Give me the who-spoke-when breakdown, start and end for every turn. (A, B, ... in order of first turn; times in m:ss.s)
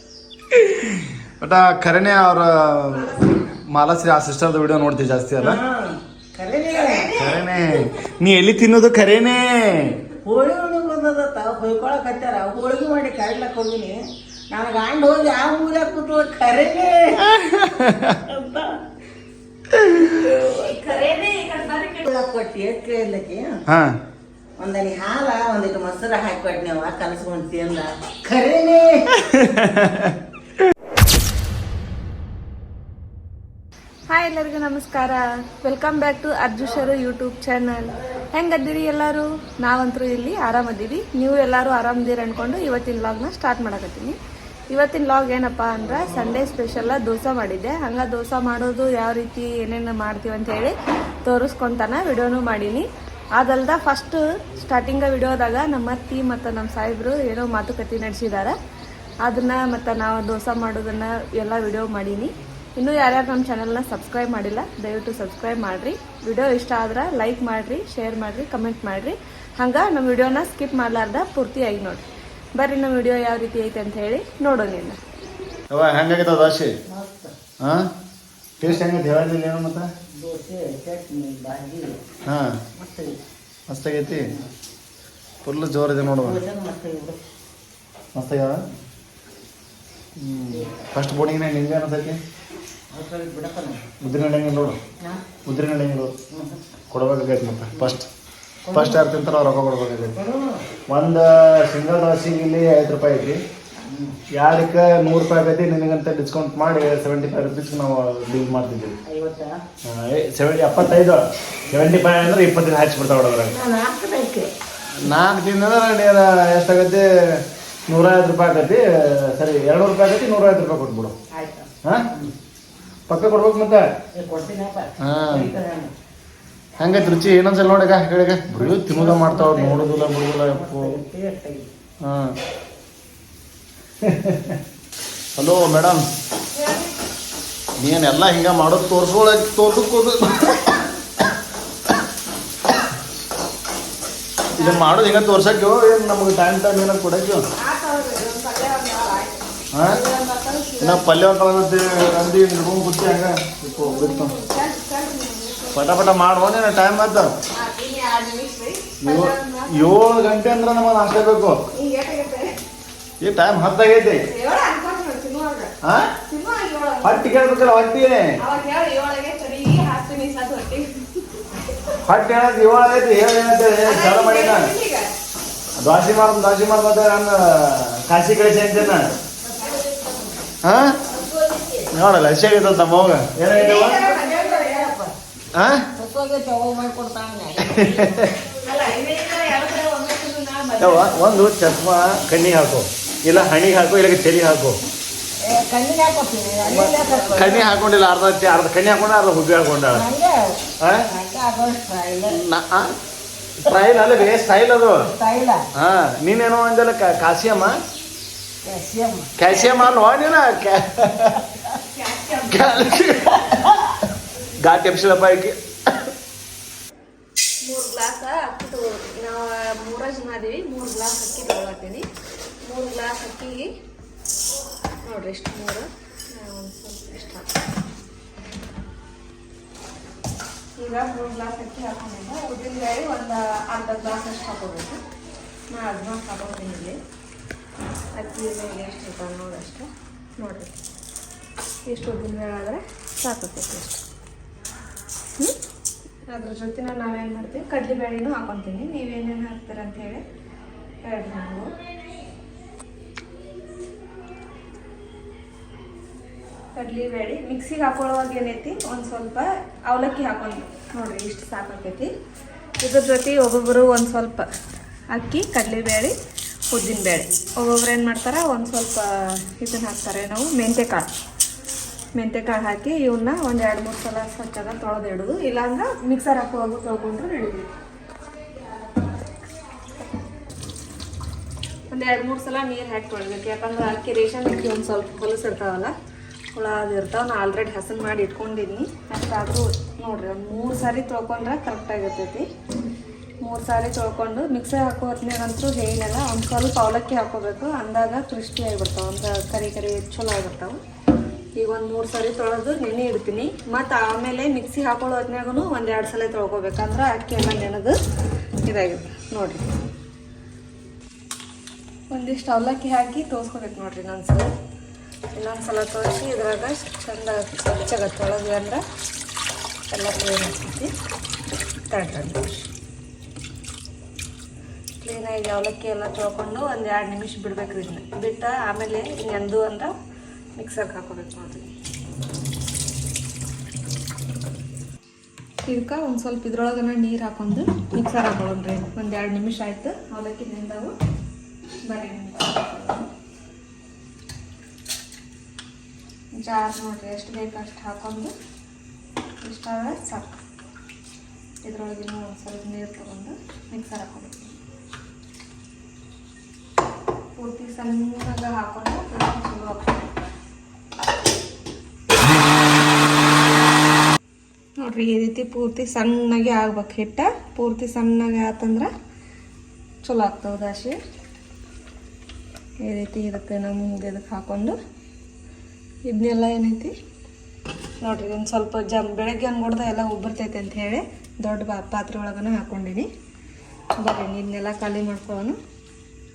0:00.5-0:05.6 A
0:02.9-0:03.6 B
0:05.4-0:07.1 C
0:06.7-0:08.0 B
0:07.2-0:10.0 A
0:10.2-0:14.0 C
0:14.5-0:18.8 C
0:17.3-0:18.2 A
0:20.0-0:22.0 B
0:22.0-0:23.6 C
0:23.7-0:24.0 A
0:24.6-0:29.1 C
0:29.3-0:30.2 A
0:34.1-0:44.2 B
0:44.7-0:58.6 B
0:45.9-0:46.4 C
0:59.2-1:12.0 B
1:12.6-1:15.0 B
1:15.7-1:16.7 A
1:16.9-1:17.3 C
1:17.6-1:17.9 A
1:18.6-1:19.9 A
1:20.1-1:22.0 C
1:22.3-1:22.6 A
1:22.8-1:23.2 C
1:23.7-1:24.3 A
1:24.1-1:24.5 C
1:25.4-1:26.4 A
1:26.1-1:27.2 C
1:28.1-1:28.6 A
1:30.2-1:32.2 A
1:32.9-1:33.9 C
1:34.0-1:34.8 A
1:35.5-1:36.1 A
1:36.3-1:36.6 C
1:36.9-1:38.1 A
1:38.7-1:39.0 C
1:38.7-1:40.2 A
1:40.2-1:40.6 C
1:40.9-1:43.4 A
1:43.8-1:44.2 C
1:44.3-1:49.0 A
1:49.1-1:49.6 C
1:49.8-1:53.6 A
1:53.5-1:54.5 C
1:55.0-2:01.1 A
2:01.3-2:02.3 C
2:03.1-2:03.9 A
2:04.1-2:05.9 C
2:05.0-2:05.5 A
2:06.8-2:11.0 A
2:08.5-2:11.7 C
2:12.0-2:12.4 A
2:14.0-2:14.6 A
2:15.4-2:16.0 A
2:16.5-2:17.0 B
2:17.8-2:20.6 A
2:24.5-2:25.0 B
2:24.6-2:27.4 A
2:27.6-2:31.1 B
2:29.8-2:30.0 A
2:30.8-2:34.3 A
2:33.8-2:36.1 B
2:35.7-2:37.3 A
2:37.5-2:39.9 B
2:39.0-2:41.6 A
2:41.7-2:42.5 B
2:43.2-2:44.2 A
2:44.2-2:45.7 B
2:45.8-2:46.1 A
2:46.3-2:47.3 B
2:47.0-2:48.4 A
2:48.4-2:52.0 B
2:52.1-2:54.7 A
2:53.8-2:55.1 B
2:55.8-2:59.1 A
2:59.4-3:00.5 C
3:00.6-3:01.0 A
3:01.1-3:01.9 C
3:01.9-3:04.0 A
3:03.5-3:04.9 B
3:03.6-3:05.1 C
3:05.6-3:05.8 A
3:06.0-3:08.5 C
3:07.7-3:08.3 A
3:08.6-3:11.2 B
3:10.8-3:14.8 A
3:15.4-3:17.7 C
3:16.7-3:20.0 A
3:19.9-3:20.5 C
3:21.1-3:22.4 C
3:22.3-3:22.9 A
3:23.6-3:25.0 A
3:25.0-3:25.6 C
3:25.8-3:27.8 A
3:28.6-3:29.3 C
3:29.4-3:31.6 A
3:29.5-3:29.9 B
3:31.9-3:33.0 B
3:32.5-3:33.9 A
3:34.6-3:36.1 A
3:37.6-3:42.0 B
3:42.6-3:43.7 B
3:45.0-3:47.5 B
3:50.8-3:55.0 B
3:55.7-3:57.0 B
3:58.2-3:59.9 B
4:00.4-4:00.8 B
4:01.9-4:04.0 B
4:06.3-4:10.2 B
4:11.0-4:11.7 B
4:16.8-4:22.1 B
4:22.8-4:24.5 B
4:25.1-4:26.1 B
4:26.7-4:31.1 B
4:32.2-4:37.7 B
4:41.9-4:45.9 B
4:46.6-4:52.4 B
4:53.4-5:00.8 B
5:01.6-5:08.0 B
5:08.7-5:09.7 B
5:12.1-5:14.5 B
5:15.4-5:18.8 B
5:19.9-5:20.9 B
5:21.9-5:22.7 B
5:25.0-5:29.9 B
5:30.6-5:31.7 B
5:35.7-5:40.9 B
5:41.9-5:43.1 B
5:46.4-5:48.3 B
5:49.4-5:50.4 B
5:51.6-5:54.6 B
5:57.4-6:00.1 B
6:04.8-6:08.9 B
6:10.0-6:11.0 B
6:12.8-6:14.8 B
6:16.1-6:16.9 B
6:18.0-6:23.1 B
6:24.0-6:25.6 B